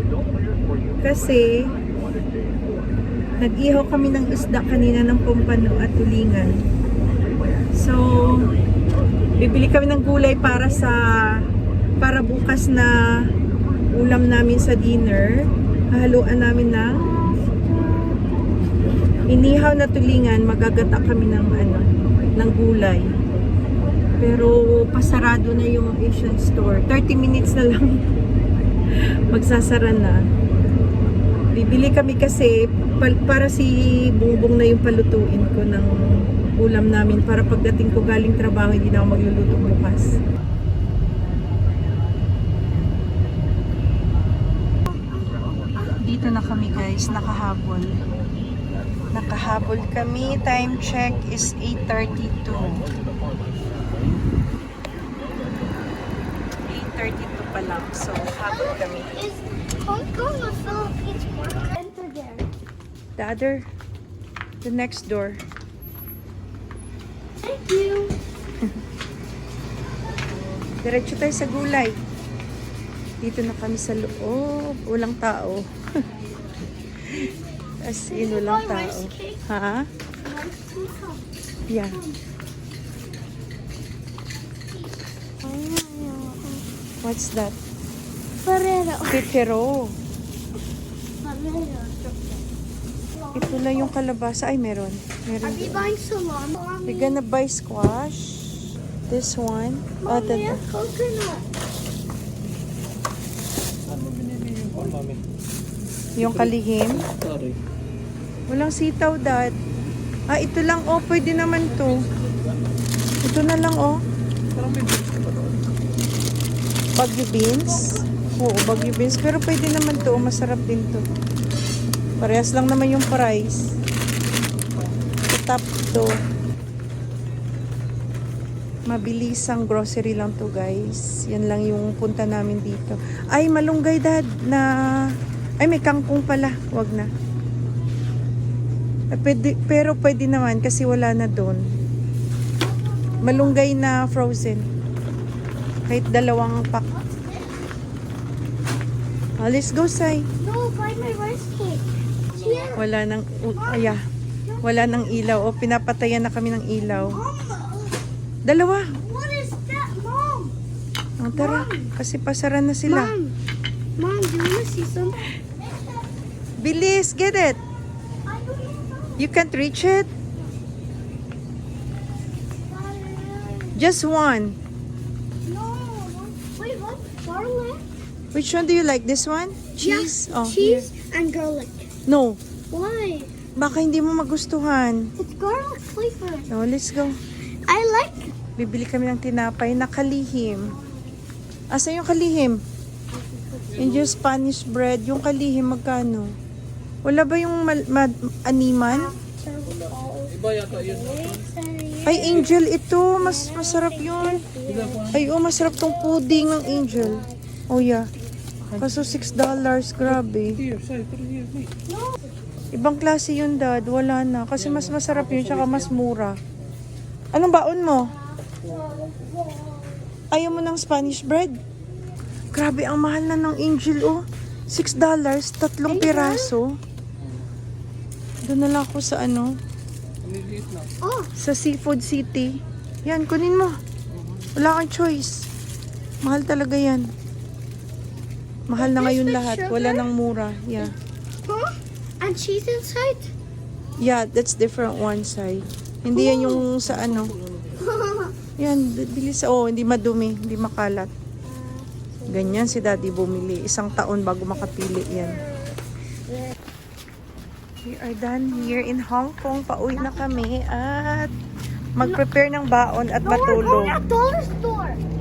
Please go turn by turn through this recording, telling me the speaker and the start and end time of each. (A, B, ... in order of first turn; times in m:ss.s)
0:01.0-0:01.7 A
0:03.4-0:06.6 A
0:07.7-0:08.5 A
0:09.4-0:11.4 A
0:12.0-0:13.2 A
0:13.9-0:17.1 A
0:16.9-0:18.2 B
0:19.3-0:23.1 A
0:24.2-0:28.0 A
0:29.3-0:30.3 A
0:31.5-0:40.2 A
0:46.0-0:48.0 A
0:49.1-0:52.8 A
0:56.7-0:59.1 A
0:58.4-1:02.4 B
1:03.2-1:03.6 A
1:04.6-1:05.4 A
1:07.4-1:08.2 B
1:10.8-1:12.0 A
1:13.2-1:15.7 A
1:17.1-1:19.9 A
1:18.1-1:19.4 B
1:20.2-1:21.2 B
1:21.7-1:22.0 A
1:21.9-1:22.2 B
1:25.4-1:26.6 B
1:27.0-1:27.6 A
1:28.4-1:29.3 B
1:29.1-1:30.0 A
1:31.2-1:32.4 B
1:33.1-1:33.9 B
1:33.3-1:35.9 A
1:35.4-1:37.2 B
1:36.8-1:40.6 A
1:40.0-1:41.4 B
1:43.9-1:45.2 C
1:46.2-1:47.0 A
1:46.2-1:47.6 C
1:48.5-1:49.6 A
1:50.3-1:52.0 A
1:52.0-1:52.4 C
1:53.2-1:54.0 A
1:54.5-1:55.7 C
1:56.9-2:01.1 A
2:02.2-2:03.7 A
2:05.3-2:06.2 A
2:08.8-2:17.1 A
2:19.1-2:21.8 A
2:22.6-2:23.6 B
2:23.2-2:24.7 A
2:25.8-2:26.9 A
2:26.9-2:27.6 B
2:29.4-2:30.3 A
2:30.4-2:32.8 B
2:32.7-2:34.0 A
2:33.6-2:35.4 B
2:34.6-2:37.2 A
2:36.9-2:38.0 B
2:38.4-2:39.0 A
2:39.0-2:40.5 B
2:41.2-2:43.2 A
2:41.3-2:41.9 B
2:42.8-2:43.3 B
2:44.0-2:46.0 B
2:46.6-2:47.6 A
2:48.2-2:49.2 B
2:49.2-2:50.1 A
2:52.6-2:53.9 B
2:53.7-2:54.6 A
2:55.4-2:57.8 B
2:58.3-3:00.9 A
2:59.8-3:01.9 B
3:02.0-3:02.4 A
3:02.7-3:03.3 B
3:03.6-3:05.1 A
3:05.2-3:06.5 B
3:06.5-3:07.2 A
3:07.7-3:08.3 B
3:08.6-3:10.8 A
3:10.5-3:11.1 B
3:11.7-3:12.6 A
3:13.1-3:13.7 B
3:13.7-3:14.1 C
3:13.8-3:16.4 A
3:17.0-3:19.1 A
3:18.9-3:22.6 B
3:19.7-3:21.4 C
3:22.0-3:24.5 A
3:23.2-3:27.4 B
3:24.6-3:25.3 C
3:25.1-3:28.1 A
3:28.7-3:29.2 C
3:28.8-3:30.6 A
3:30.1-3:31.7 C
3:31.9-3:32.3 B
3:32.7-3:36.4 A
3:34.6-3:35.9 C
3:37.3-3:38.1 A
3:38.0-3:40.0 B
3:40.3-3:41.6 A
3:42.5-3:46.8 A
3:45.9-3:46.5 B
3:47.2-3:47.5 C
3:48.4-3:49.6 A
3:50.2-3:50.9 C
3:51.0-3:51.3 B
3:51.4-3:53.8 A
3:54.1-3:54.5 C
3:54.5-3:55.5 A
3:56.2-3:57.1 A
3:58.7-4:01.0 A
3:58.7-4:00.1 B
4:01.4-4:03.3 B
4:04.0-4:07.3 A
4:06.1-4:06.6 B
4:06.8-4:07.8 C
4:07.8-4:08.3 B
4:08.6-4:11.1 A
4:11.4-4:13.2 B
4:12.3-4:15.4 A
4:14.7-4:16.6 B
4:17.8-4:21.3 A
4:19.9-4:20.2 B
4:22.0-4:24.0 A
4:23.2-4:25.0 B